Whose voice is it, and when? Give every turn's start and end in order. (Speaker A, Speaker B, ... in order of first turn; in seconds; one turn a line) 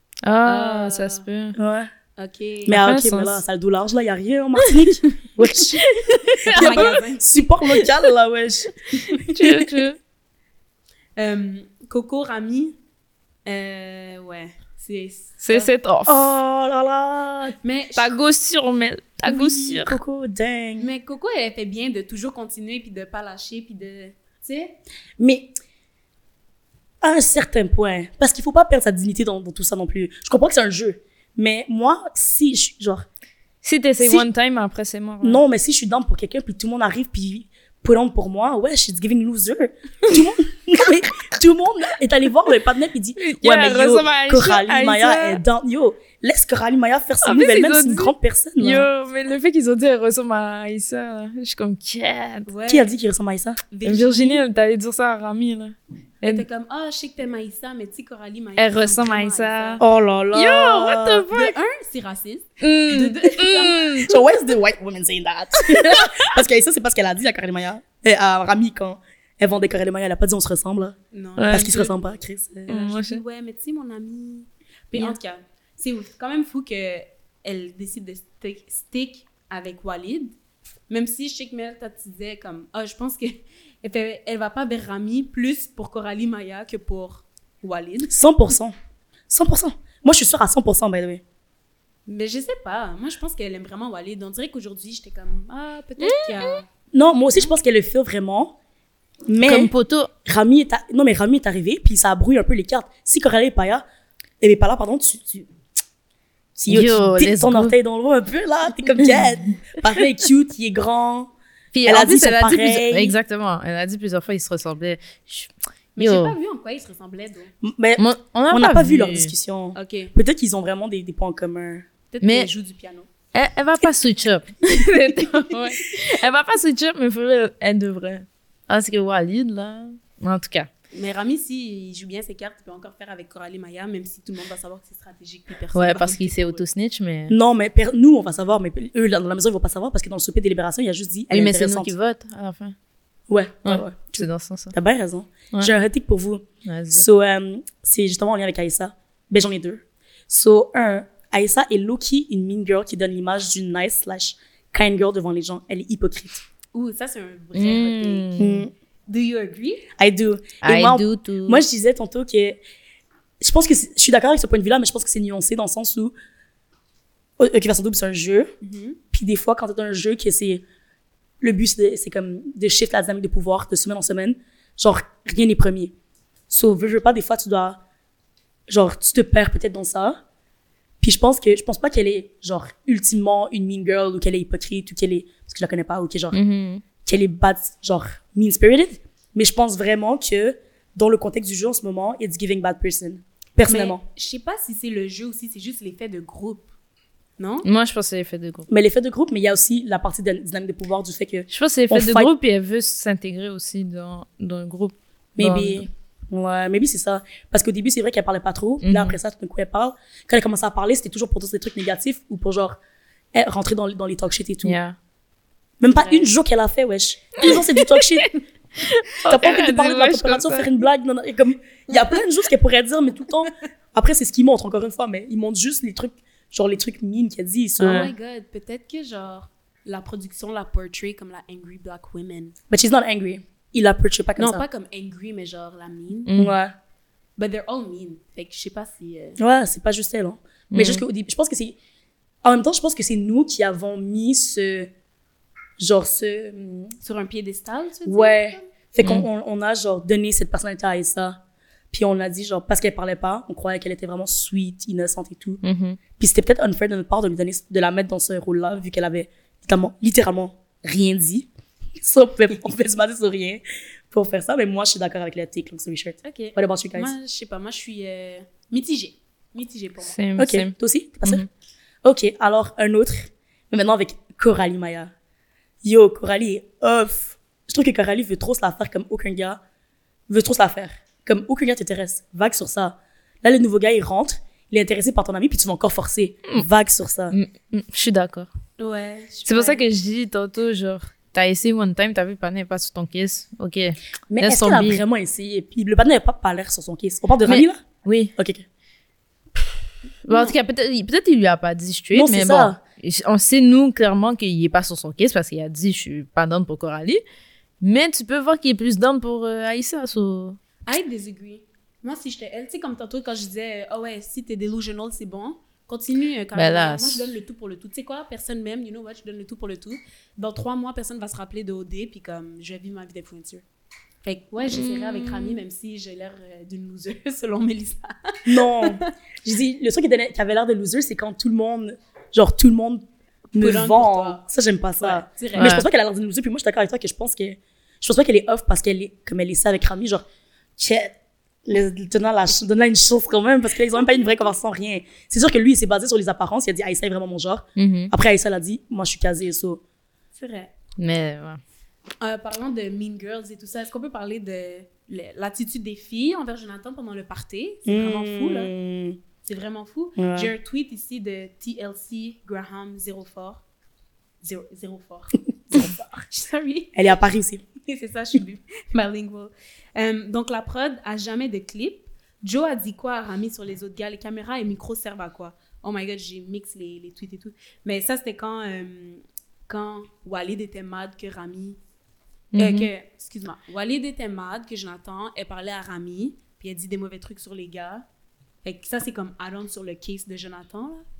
Speaker A: 0.2-1.6
Speaker B: 0.4-1.2
Speaker C: 1.6-1.9
Speaker B: 2.2-2.8
Speaker C: 2.7-5.8
Speaker A: 2.7-3.4
Speaker A: 5.9-7.0
Speaker C: 6.5-9.7
Speaker B: 6.5-7.4
Speaker A: 9.3-10.0
Speaker B: 11.2-12.8
Speaker B: 13.5-15.7
Speaker A: 15.4-16.4
Speaker C: 16.1-17.6
Speaker B: 17.6-18.1
Speaker A: 18.0-20.0
Speaker C: 19.3-20.9
Speaker B: 20.8-24.8
Speaker C: 25.2-25.6
Speaker C: 27.0-33.1
Speaker A: 33.6-35.4
Speaker C: 34.0-34.3
Speaker C: 35.2-48.9
Speaker A: 43.2-45.4
Speaker A: 47.2-52.5
Speaker B: 52.5-52.9
Speaker C: 52.7-53.6
Speaker B: 53.7-54.4
Speaker A: 53.8-56.5
Speaker B: 56.2-59.8
Speaker A: 58.6-61.6
Speaker C: 59.8-61.3
Speaker B: 61.3-64.2
Speaker A: 62.6-64.1
Speaker C: 64.0-71.0
Speaker A: 65.7-66.3
Speaker B: 71.1-72.0
Speaker A: 71.4-71.7
Speaker C: 71.5-72.7
Speaker B: 72.7-80.3
Speaker A: 72.7-73.2
Speaker B: 80.9-88.2
Speaker C: 88.1-88.7
Speaker C: 89.3-91.2
Speaker B: 92.1-96.7
Speaker A: 96.0-96.6
Speaker C: 96.9-98.6
Speaker C: 99.3-99.7
Speaker A: 99.4-100.1
Speaker C: 100.2-103.8
Speaker C: 104.4-105.5
Speaker C: 106.6-111.3
Speaker A: 106.7-107.8
Speaker A: 111.7-116.3
Speaker C: 111.8-113.2
Speaker B: 116.0-117.5
Speaker C: 117.6-121.9
Speaker A: 118.0-119.3
Speaker B: 119.8-120.1
Speaker B: 122.1-123.1
Speaker A: 122.2-122.5
Speaker A: 123.3-130.7
Speaker B: 125.1-125.6
Speaker B: 130.9-136.6
Speaker A: 135.7-137.4
Speaker C: 137.3-141.9
Speaker A: 141.3-142.8
Speaker C: 143.3-156.4
Speaker A: 143.7-144.7
Speaker A: 146.7-147.1
Speaker B: 156.7-158.4
Speaker A: 157.6-158.7
Speaker C: 158.4-158.7
Speaker B: 159.1-159.9
Speaker C: 160.0-162.6
Speaker A: 160.6-161.7
Speaker C: 163.4-166.1
Speaker C: 167.4-168.5
Speaker B: 168.6-169.0
Speaker C: 169.1-170.6
Speaker C: 171.4-175.9
Speaker C: 176.5-177.8
Speaker C: 178.7-180.2
Speaker C: 181.0-186.4
Speaker A: 186.3-186.8
Speaker C: 187.0-194.0
Speaker B: 193.6-196.7
Speaker B: 197.4-197.7
Speaker A: 197.6-198.7
Speaker C: 198.7-202.3
Speaker A: 201.5-205.9
Speaker C: 205.4-212.8
Speaker A: 208.8-209.2
Speaker C: 213.3-214.8
Speaker A: 214.6-215.0
Speaker C: 215.8-218.3
Speaker B: 215.9-216.3
Speaker A: 217.4-218.3
Speaker A: 218.8-220.8
Speaker C: 219.3-228.1
Speaker A: 227.8-228.1
Speaker B: 227.9-232.6
Speaker C: 232.7-234.7
Speaker B: 234.4-236.3
Speaker A: 236.3-236.5
Speaker C: 236.4-236.8
Speaker B: 237.4-239.4
Speaker C: 239.4-241.8
Speaker A: 240.7-241.1
Speaker C: 242.4-244.9
Speaker C: 245.8-246.9
Speaker B: 247.0-248.7
Speaker C: 248.1-251.4
Speaker A: 249.0-249.3
Speaker C: 251.9-255.6
Speaker A: 255.6-256.0
Speaker C: 256.2-267.1
Speaker B: 266.2-270.2
Speaker A: 270.0-271.5
Speaker C: 270.4-271.5
Speaker C: 272.0-275.1
Speaker C: 275.8-279.6
Speaker C: 280.3-287.4
Speaker A: 287.3-288.5
Speaker B: 288.8-289.8
Speaker A: 289.5-295.0
Speaker C: 294.3-297.8
Speaker A: 297.4-298.3
Speaker C: 298.4-298.6
Speaker A: 300.3-307.2
Speaker B: 300.3-300.6
Speaker C: 302.1-302.8
Speaker A: 307.8-310.6
Speaker B: 310.9-323.6
Speaker A: 316.6-317.3
Speaker B: 324.2-329.1
Speaker A: 324.7-325.6
Speaker C: 328.5-340.2
Speaker B: 333.6-334.4
Speaker B: 335.0-335.8
Speaker A: 335.6-335.9
Speaker C: 340.8-349.8
Speaker A: 347.8-348.1
Speaker B: 350.4-350.7
Speaker A: 351.0-351.6
Speaker B: 352.2-358.7
Speaker C: 357.9-359.2
Speaker B: 359.4-363.6
Speaker C: 360.2-360.5
Speaker B: 364.4-367.0
Speaker C: 366.9-367.6
Speaker B: 367.8-381.8
Speaker A: 382.5-382.9
Speaker B: 382.6-388.1
Speaker B: 388.6-391.1